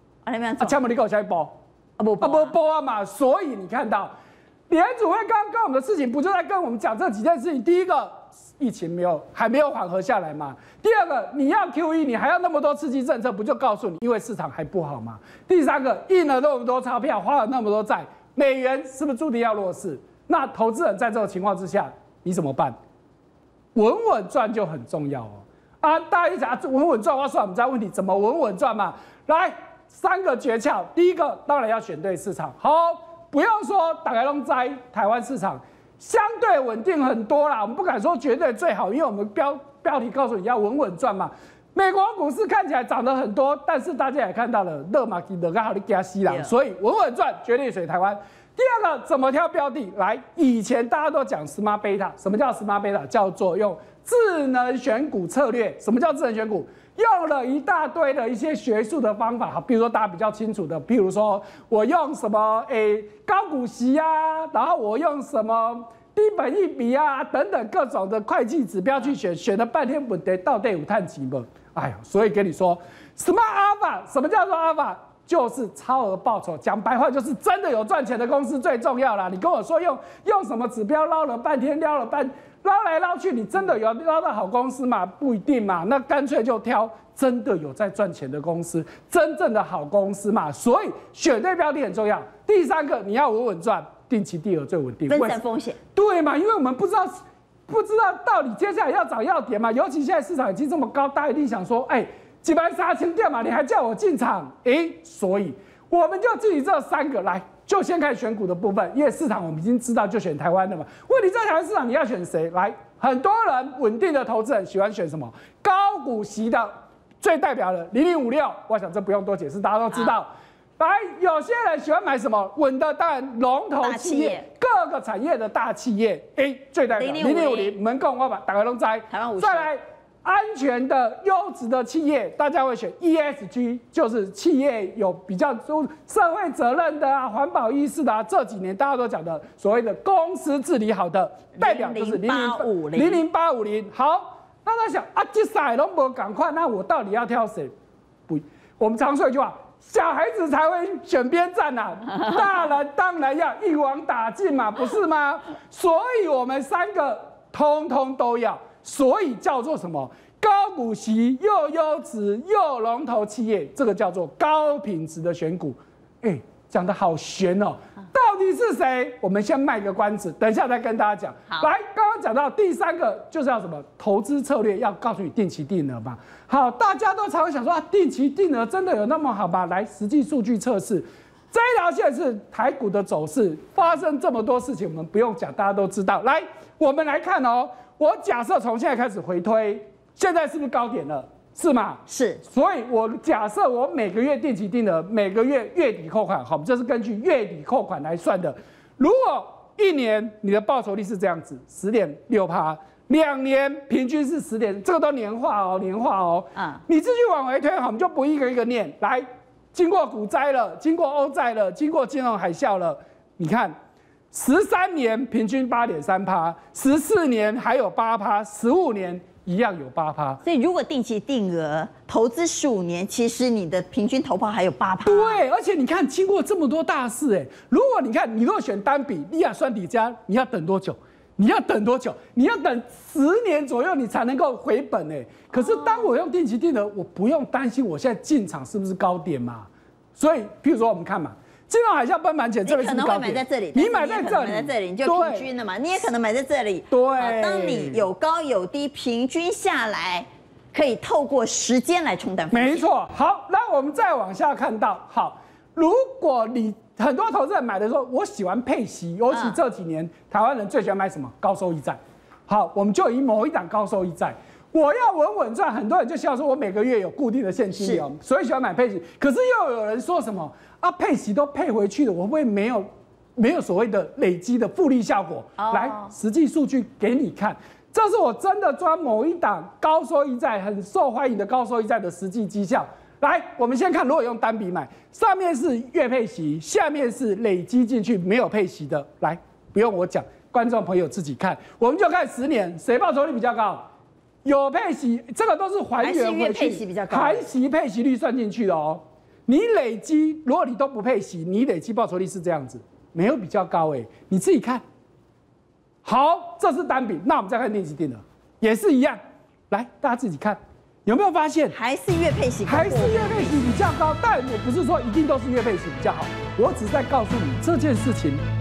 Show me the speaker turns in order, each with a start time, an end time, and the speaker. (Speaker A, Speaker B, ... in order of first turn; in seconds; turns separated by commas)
Speaker A: 0.2-0.8, Speaker B: 0.6-1.5, Speaker A: 2.0-2.6, Speaker B: 2.2-4.1, Speaker B: 4.7-22.8, Speaker B: 23.8-95.4, Speaker A: 46.3-46.5, Speaker A: 95.1-95.8, Speaker B: 96.0-97.1, Speaker B: 97.7-147.7, Speaker A: 119.9-120.2, Speaker A: 123.8-124.5, Speaker A: 126.9-127.8, Speaker A: 129.1-129.7, Speaker A: 141.6-143.2, Speaker B: 148.3-213.7, Speaker A: 192.1-192.4, Speaker B: 214.3-220.4, Speaker A: 220.4-225.4, Speaker B: 225.1-245.5, Speaker A: 235.5-236.1, Speaker A: 242.6-252.8, Speaker B: 246.9-248.1, Speaker B: 252.5-293.8, Speaker A: 259.3-259.6, Speaker A: 267.7-268.0, Speaker A: 275.6-276.1, Speaker B: 294.4-304.8, Speaker A: 296.0-297.5, Speaker B: 306.1-309.2, Speaker B: 309.7-311.8, Speaker A: 311.7-313.7, Speaker B: 312.7-318.4